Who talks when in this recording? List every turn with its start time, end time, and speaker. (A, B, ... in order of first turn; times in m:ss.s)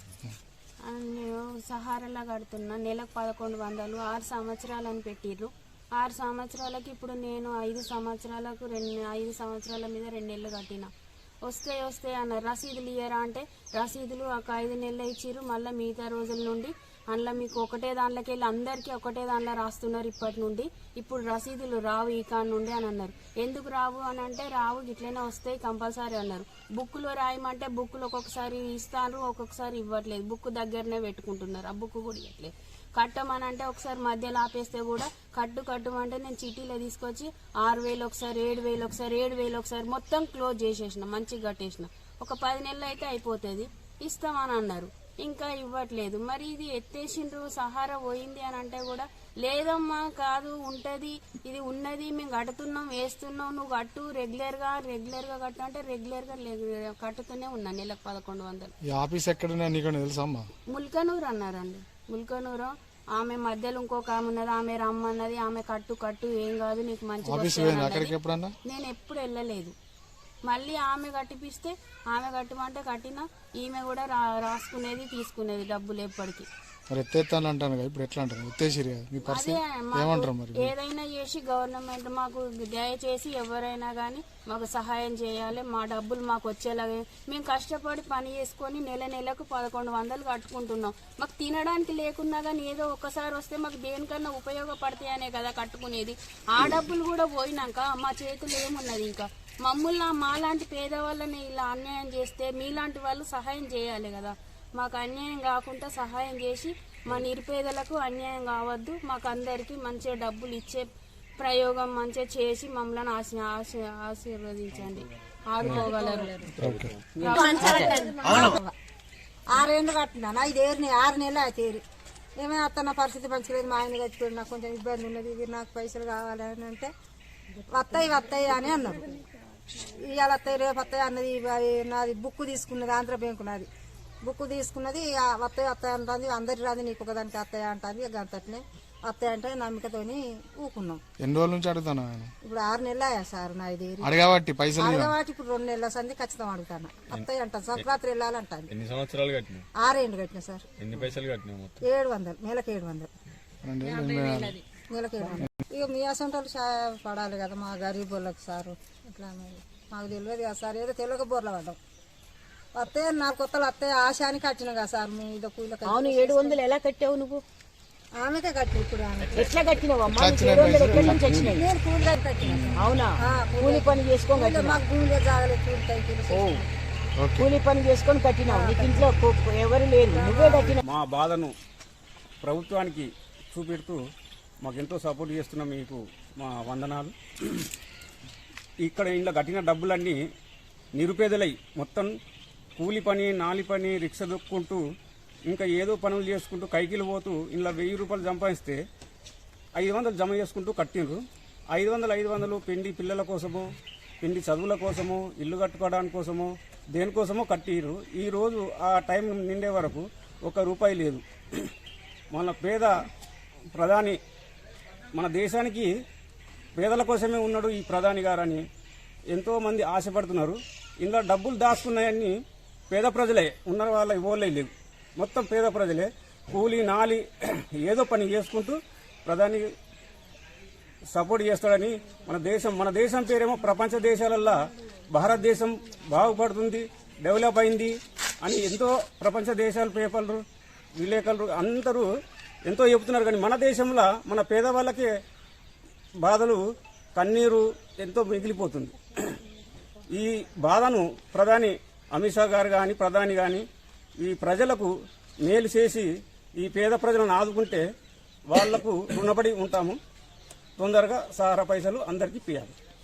0:00.9-0:10.9 A
0:11.5-0:58.7 A
0:58.9-1:00.5 B
1:00.7-1:09.8 A
1:07.2-1:08.6 B
1:10.5-1:16.5 A
1:16.9-1:20.7 B
1:19.2-1:50.9 A
1:51.4-1:56.4 A
1:55.8-1:56.5 C
1:56.6-1:57.0 D
1:56.6-1:56.9 B
1:57.2-1:58.2 A
1:57.3-1:58.1 E
1:57.4-1:58.7 C
1:59.5-2:01.8 C
2:02.4-2:06.9 C
2:07.7-2:09.1 C
2:09.8-2:13.7 C
2:14.2-2:21.0 C
2:21.2-2:22.3 B
2:22.4-2:24.2 C
2:24.0-2:25.1 B
2:24.8-2:28.7 C
2:27.1-2:27.9 D
2:28.7-2:29.7 D
2:29.8-2:30.6 C
2:30.8-2:31.8 D
2:31.8-2:33.1 C
2:33.6-2:34.6 B
2:34.9-2:41.8 C
2:42.7-2:46.6 C
2:45.8-2:47.4 E
2:48.2-2:49.8 C
2:49.3-2:51.7 E
2:50.1-2:51.5 B
2:51.1-2:56.7 C
2:52.4-2:52.8 B
2:52.7-2:54.8 E
2:56.3-2:56.6 E
2:57.2-2:57.5 B
2:57.4-3:00.8 E
2:58.4-2:59.2 C
3:00.1-3:00.8 C
3:00.8-3:01.5 F
3:02.4-3:04.0 F
3:04.6-3:07.1 F
3:08.8-3:10.2 F
3:11.0-3:12.1 F
3:12.8-3:14.8 F
3:15.5-3:18.8 F
3:19.8-3:21.2 F
3:21.7-3:31.7 F
3:32.3-3:32.9 F
3:33.8-3:34.2 F
3:35.1-3:35.9 F
3:36.8-3:38.6 F
3:39.3-3:42.3 F
3:42.9-3:49.7 F
3:51.1-4:00.4 F
4:01.0-4:02.1 F
4:02.7-4:05.1 F
4:06.2-4:06.6 F
4:07.2-4:09.4 F
4:10.2-4:13.7 F
4:14.2-4:14.9 F
4:15.4-4:16.1 F
4:16.6-4:17.8 F
4:18.5-4:20.0 F
4:20.8-4:22.7 F